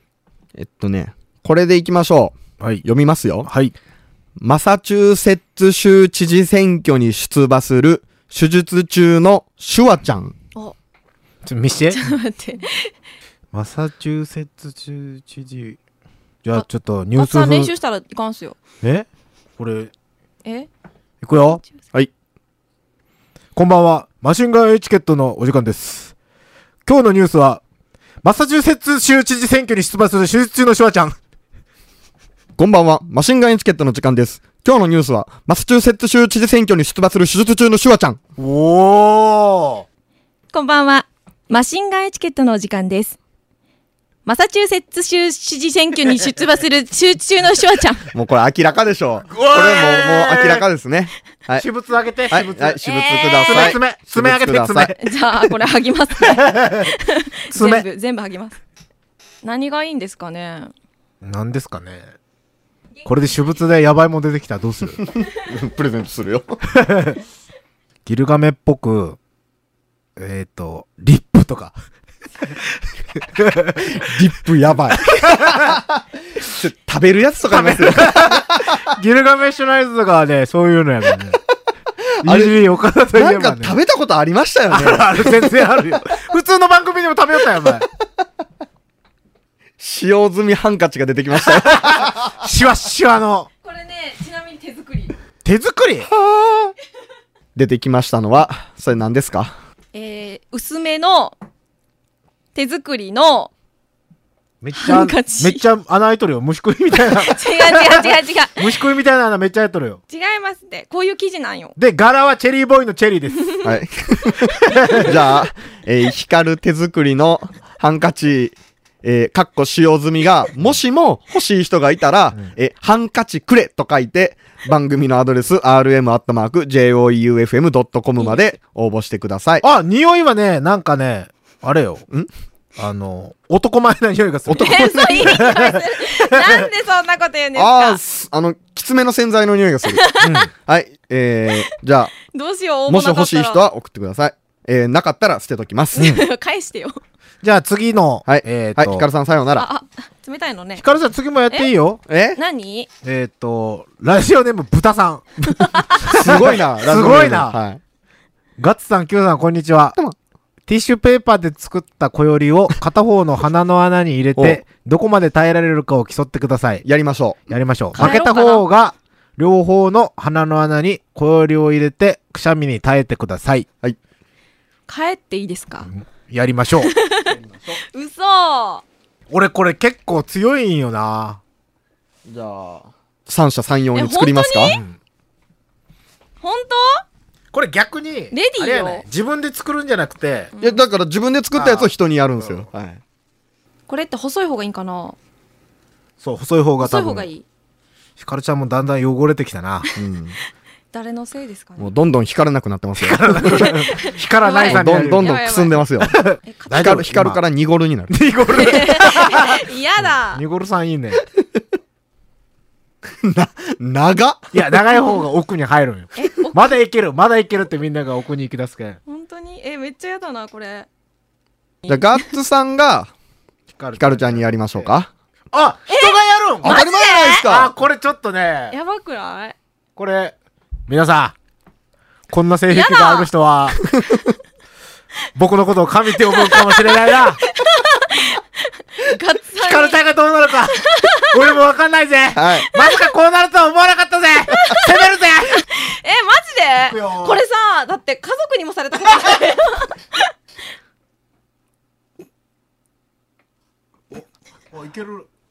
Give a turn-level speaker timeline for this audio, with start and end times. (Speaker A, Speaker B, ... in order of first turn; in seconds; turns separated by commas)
Speaker A: 0.6-3.5, Speaker B: 3.4-3.7, Speaker A: 4.4-10.3, Speaker B: 11.4-12.0, Speaker C: 11.9-12.9, Speaker B: 13.5-15.8, Speaker B: 16.4-17.7, Speaker C: 17.1-18.6, Speaker B: 18.8-19.1, Speaker B: 19.6-19.9, Speaker C: 20.4-20.7, Speaker B: 21.2-21.6, Speaker B: 23.5-26.1, Speaker B: 26.9-27.6, Speaker B: 28.2-31.2, Speaker A: 32.6-38.2, Speaker B: 38.4-39.9, Speaker C: 40.5-43.2, Speaker C: 44.2-48.1, Speaker A: 48.1-51.6, Speaker B: 49.3-50.6, Speaker B: 51.6-52.8, Speaker A: 52.3-54.9, Speaker C: 52.8-53.8, Speaker B: 53.5-55.0, Speaker C: 55.0-58.6, Speaker B: 56.2-56.9, Speaker B: 57.5-57.9, Speaker C: 59.4-60.7, Speaker B: 61.2-62.1, Speaker B: 63.0-65.0, Speaker A: 65.0-66.6, Speaker B: 66.7-67.2, Speaker B: 68.0-69.2, Speaker B: 70.2-71.7, Speaker B: 72.4-73.9, Speaker A: 73.8-78.9, Speaker B: 74.9-75.8, Speaker B: 77.5-81.4, Speaker A: 82.2-82.6, Speaker B: 82.2-83.8, Speaker A: 83.1-85.7, Speaker B: 84.7-87.8, Speaker A: 89.8-92.3, Speaker B: 91.4-93.5, Speaker C: 93.6-95.1, Speaker B: 95.4-96.1, Speaker A: 96.1-96.7, Speaker A: 97.5-99.5, Speaker C: 99.9-101.3, Speaker C: 102.5-103.5, Speaker B: 104.6-110.0, Speaker C: 104.7-105.6, Speaker C: 107.0-108.7, Speaker C: 110.1-111.8, Speaker B: 111.8-113.5, Speaker A: 113.6-129.6, Speaker B: 114.6-115.1, Speaker C: 128.2-128.4, Speaker B: 129.6-132.0, Speaker B: 132.8-136.7, Speaker A: 134.5-135.4, Speaker C: 134.5-138.0, Speaker A: 137.6-142.1, Speaker C: 139.9-140.5, Speaker B: 140.2-140.5, Speaker C: 142.2-143.6, Speaker A: 142.9-146.1, Speaker C: 145.9-147.0, Speaker B: 146.0-146.2, Speaker B: 147.4-149.1, Speaker A: 148.2-149.7, Speaker C: 149.5-150.8, Speaker B: 150.8-152.0, Speaker A: 152.1-152.4, Speaker C: 152.3-152.9, Speaker B: 153.0-157.6, Speaker C: 155.4-156.1, Speaker A: 156.0-157.8, Speaker B: 158.6-159.9, Speaker B: 160.7-166.8, Speaker A: 166.8-167.5, Speaker B: 167.5-173.7, Speaker C: 168.0-168.6, Speaker C: 174.9-175.9, Speaker B: 175.9-176.9, Speaker C: 176.8-178.8, Speaker A: 177.3-177.8, Speaker B: 179.3-181.4, Speaker A: 182.2-184.8, Speaker C: 183.9-184.8, Speaker B: 184.7-185.0, Speaker C: 186.4-187.0, Speaker B: 187.5-190.5, Speaker C: 188.3-189.0, Speaker C: 190.5-190.8, Speaker A: 190.6-193.0, Speaker B: 191.5-192.7, Speaker C: 193.9-195.2, Speaker B: 196.2-197.3, Speaker C: 196.8-197.4, Speaker B: 198.2-199.8, Speaker A: 199.9-200.3, Speaker C: 200.9-201.9, Speaker A: 201.8-203.7, Speaker B: 203.0-205.4, Speaker C: 203.4-205.8, Speaker A: 204.6-206.1, Speaker B: 206.0-207.4, Speaker C: 206.4-206.9, Speaker A: 206.7-208.2, Speaker B: 208.1-209.6, Speaker C: 208.5-210.4, Speaker B: 210.3-211.2, Speaker A: 213.2-214.5, Speaker B: 214.5-219.0, Speaker C: 216.2-216.7, Speaker C: 219.1-220.9, Speaker C: 221.8-222.2, Speaker A: 221.9-223.1, Speaker B: 223.7-224.9, Speaker A: 224.0-225.1, Speaker B: 225.5-226.8, Speaker C: 225.9-227.4, Speaker A: 226.6-227.7, Speaker B: 227.4-228.7, Speaker C: 228.7-229.6, Speaker B: 229.9-230.3, Speaker B: 230.9-231.3, Speaker B: 232.3-233.8, Speaker C: 232.7-233.3, Speaker B: 235.3-237.4, Speaker C: 236.3-238.4, Speaker C: 239.0-240.0, Speaker B: 239.6-245.7, Speaker C: 240.8-241.4, Speaker A: 242.3-242.7, Speaker C: 244.6-244.9, Speaker C: 245.4-250.3, Speaker B: 246.8-247.4, Speaker B: 254.1-255.3